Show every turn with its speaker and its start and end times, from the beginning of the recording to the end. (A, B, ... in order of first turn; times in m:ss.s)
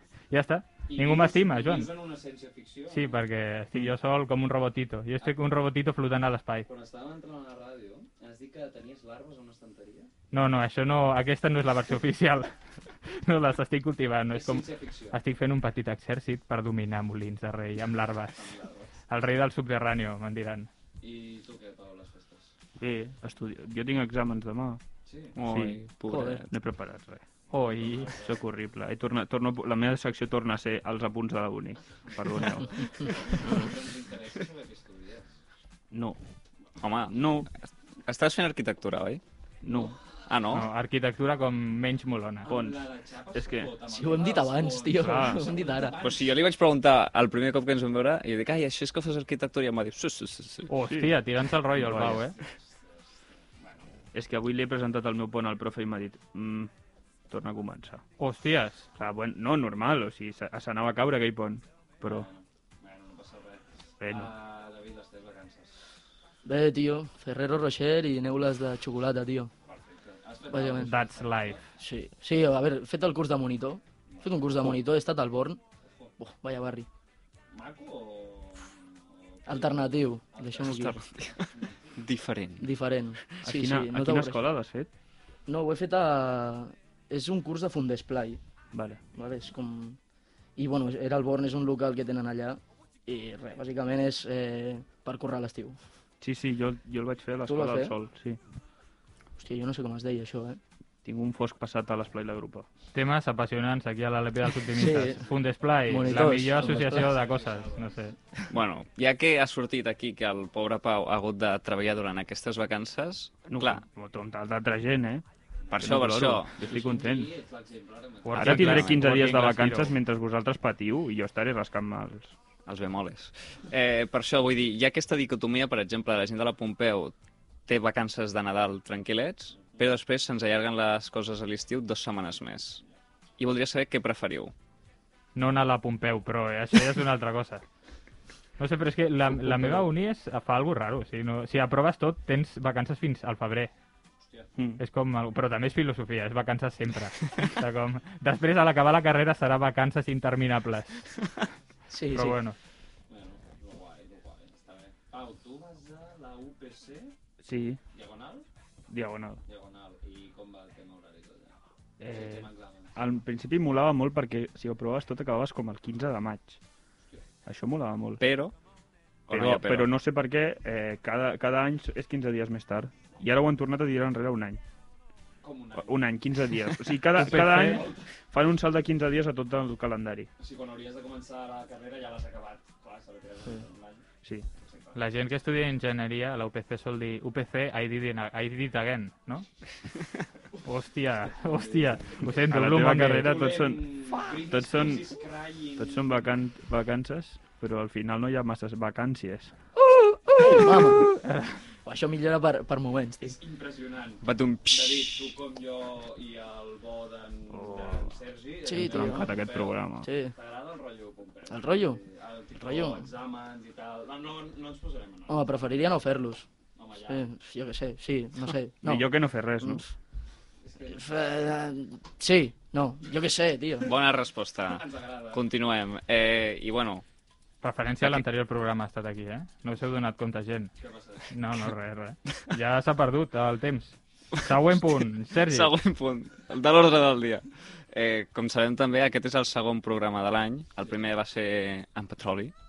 0:00.3-0:01.9 A
0:00.9-0:03.2 B
0:02.9-0:06.7 A
0:06.7-0:10.1 B
0:10.3-0:12.5 A
0:13.1-0:18.5 A
0:14.3-0:15.2 B
0:18.3-0:19.0 B
0:19.1-0:20.7 A
0:21.0-0:22.5 B
0:22.8-0:24.8 C
0:25.0-0:25.4 B
0:25.4-0:26.4 D
0:25.4-0:25.8 C
0:26.1-0:26.4 E
0:26.5-0:27.2 C
0:27.5-0:28.2 A
0:27.6-0:28.4 B
0:28.0-0:33.1 C
0:32.1-0:35.4 B
0:35.9-0:36.2 C
0:36.8-0:37.5 D
0:37.1-0:37.5 C
0:38.0-0:39.2 D
0:39.6-0:40.0 C
0:39.7-0:40.2 B
0:40.3-0:40.7 D
0:40.5-0:42.5 A
0:42.4-0:46.4 B
0:42.5-0:43.7 C
0:43.9-0:45.9 E
0:45.0-0:45.5 C
0:46.0-0:50.7 D
0:50.7-0:52.3 A
0:50.7-0:52.3 C
0:52.1-0:53.9 B
0:54.1-0:56.7 C
0:57.3-0:58.0 C
0:58.2-0:58.9 A
0:59.0-1:02.3 C
1:02.0-1:05.9 B
1:04.0-1:04.3 C
1:06.4-1:09.5 E
1:09.6-1:11.6 B
1:10.5-1:10.9 E
1:10.8-1:11.6 A
1:11.8-1:15.6 E
1:14.1-1:14.8 B
1:15.8-1:16.1 B
1:16.2-1:16.9 E
1:17.5-1:20.9 B
1:19.4-1:21.0 E
1:20.6-1:22.7 D
1:21.4-1:21.9 B
1:22.6-1:24.4 E
1:23.4-1:24.9 C
1:25.5-1:28.4 E
1:28.7-1:29.0 C
1:29.1-1:30.0 E
1:30.6-1:35.8 E
1:36.2-1:38.4 C
1:37.4-1:37.9 E
1:39.4-1:40.6 E
1:41.0-1:42.7 C
1:42.9-1:48.1 A
1:44.7-1:45.2 E
1:45.9-1:47.1 E
1:46.7-1:48.0 B
1:48.5-1:53.8 D
1:53.5-1:55.2 C
1:55.7-1:55.9 B
1:55.7-1:56.5 D
1:55.8-1:57.3 C
1:56.6-1:58.9 B
1:58.2-2:00.0 A
1:58.3-2:02.3 C
2:02.6-2:07.1 D
2:07.7-2:12.8 D
2:09.6-2:09.9 B
2:13.4-2:14.5 D
2:15.3-2:17.6 A
2:18.6-2:23.7 A
2:24.6-2:24.8 C
2:24.8-2:31.0 A
2:31.9-2:32.4 E
2:32.1-2:32.6 A
2:33.1-2:37.1 B
2:37.4-2:37.8 C
2:37.9-2:38.4 B
2:38.9-2:39.4 C
2:39.4-2:43.0 B
2:42.0-2:46.6 C
2:47.4-2:48.2 C
2:48.2-2:48.5 D
2:49.3-2:49.9 D
2:49.3-2:54.6 C
2:55.4-2:56.2 B
2:55.8-3:00.3 C
2:57.2-2:57.8 A
2:57.4-2:58.1 B
3:00.4-3:04.0 B
3:04.6-3:05.0 B
3:04.9-3:09.4 A
3:10.6-3:13.4 A
3:11.3-3:12.2 B
3:12.2-3:15.1 C
3:13.1-3:16.3 B
3:15.8-3:19.5 C
3:20.3-3:21.1 E
3:21.1-3:21.6 A
3:21.8-3:23.4 E
3:23.2-3:29.8 B
3:24.2-3:25.3 D
3:27.5-3:28.2 C
3:28.6-3:29.3 E
3:28.7-3:30.1 C
3:30.0-3:30.3 E
3:30.3-3:35.6 B
3:31.5-3:32.0 E
3:32.6-3:33.0 E
3:35.3-3:36.4 E
3:36.8-3:37.3 B
3:37.0-3:39.8 E
3:38.8-3:39.9 C
3:40.6-3:41.3 B
3:40.9-3:43.9 E
3:43.8-3:47.0 D
3:44.6-3:45.4 B
3:47.6-3:50.7 A
3:48.0-3:48.2 D
3:50.8-3:51.3 B
3:51.3-3:55.7 A
3:55.5-4:02.5 D
4:00.8-4:01.1 B